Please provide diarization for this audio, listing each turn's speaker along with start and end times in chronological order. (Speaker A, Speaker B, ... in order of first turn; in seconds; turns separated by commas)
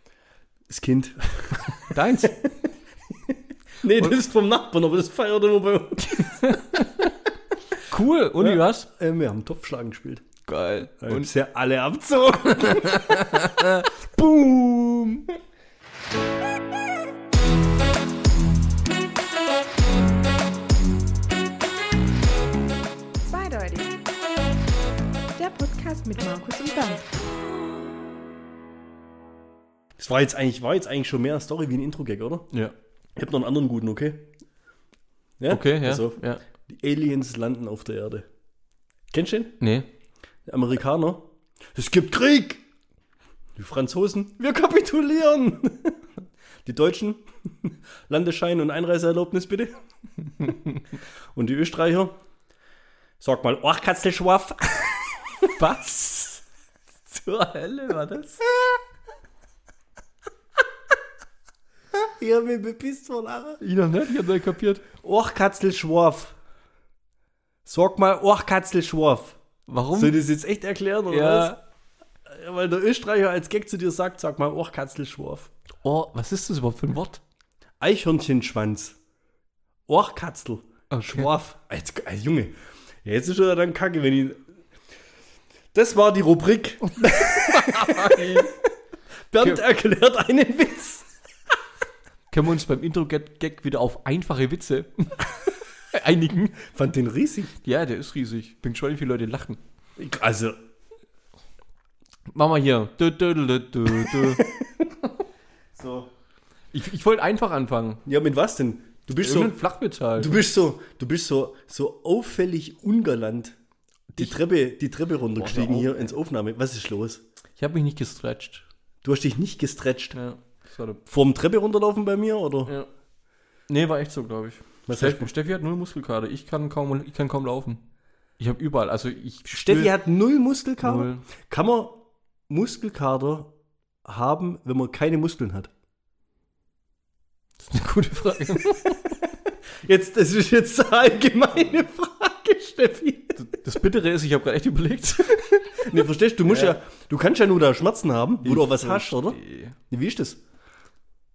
Speaker A: 0.7-1.9, Speaker B: 1.8-2.4, Speaker A: 3.8-6.5, Speaker B: 6.4-7.1, Speaker B: 7.9-8.9, Speaker A: 8.4-10.2, Speaker B: 10.4-11.3, Speaker A: 11.0-13.3, Speaker B: 12.6-15.2, Speaker C: 23.2-24.0, Speaker C: 25.4-27.1, Speaker A: 30.0-32.5, Speaker A: 33.1-34.3, Speaker A: 35.4-38.2, Speaker B: 35.5-36.4, Speaker A: 39.1-39.6, Speaker B: 39.6-39.9, Speaker A: 40.5-42.6, Speaker A: 43.5-46.0, Speaker A: 46.6-49.7, Speaker A: 51.3-52.1, Speaker A: 53.2-55.0, Speaker B: 55.4-56.4, Speaker B: 57.1-58.4, Speaker A: 61.9-63.6, Speaker B: 63.6-64.8, Speaker A: 65.0-66.3, Speaker A: 67.7-69.4, Speaker B: 69.7-70.2, Speaker A: 70.0-71.5, Speaker B: 71.1-71.6, Speaker A: 72.3-75.5, Speaker B: 75.8-77.2, Speaker A: 77.8-79.0, Speaker A: 79.9-82.5, Speaker B: 80.9-81.3, Speaker A: 83.0-84.4, Speaker A: 85.7-88.5, Speaker B: 87.1-88.5, Speaker A: 89.3-91.1, Speaker B: 92.3-96.6, Speaker A: 96.7-97.5, Speaker B: 97.6-99.6, Speaker A: 100.0-100.6, Speaker B: 102.3-104.4, Speaker A: 104.4-104.6, Speaker A: 105.8-106.1, Speaker B: 106.7-108.0, Speaker A: 108.0-109.5, Speaker B: 109.2-110.4, Speaker A: 110.2-113.6, Speaker A: 114.1-117.2, Speaker B: 115.3-116.1, Speaker B: 117.6-118.7, Speaker A: 119.0-120.2, Speaker B: 120.1-121.0, Speaker A: 121.0-122.8, Speaker B: 123.7-127.8, Speaker A: 124.9-125.3, Speaker B: 128.4-129.9, Speaker A: 129.5-133.5, Speaker B: 130.8-131.2, Speaker A: 134.0-135.7, Speaker B: 137.6-139.1, Speaker A: 139.8-143.5, Speaker B: 143.4-145.8, Speaker A: 145.7-149.4, Speaker B: 146.4-146.8, Speaker B: 148.4-149.8, Speaker A: 149.9-150.4